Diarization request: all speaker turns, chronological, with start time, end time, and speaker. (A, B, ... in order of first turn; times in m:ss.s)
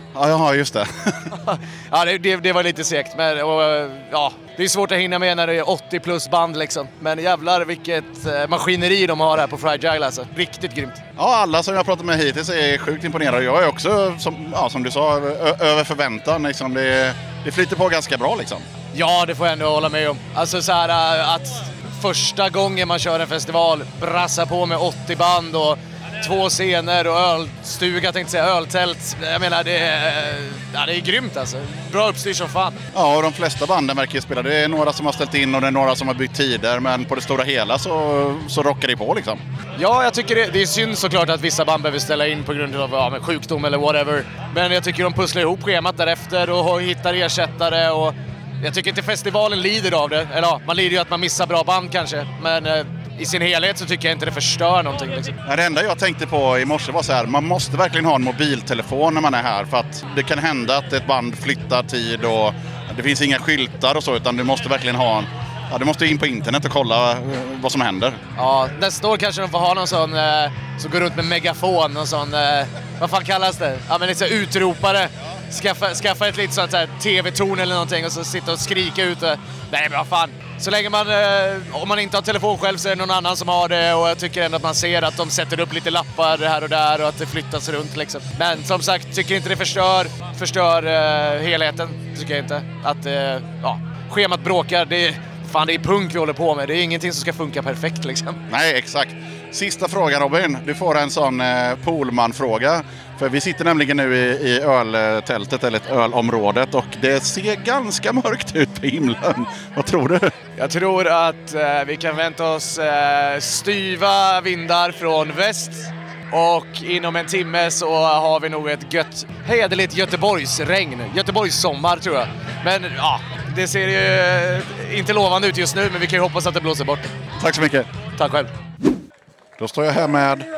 0:00.1-0:01.2 A
0:01.4-0:11.0 B
0:11.2-0:18.6 A
0:18.9-0:32.8 B
0:32.9-0:39.4 A
0:39.8-0:55.3 B
0:55.4-1:08.2 A
1:08.4-1:38.4 B
1:38.5-1:50.3 A
1:50.6-2:07.1 B
2:07.4-2:07.9 A
2:08.2-2:08.5 B
2:09.6-2:10.4 A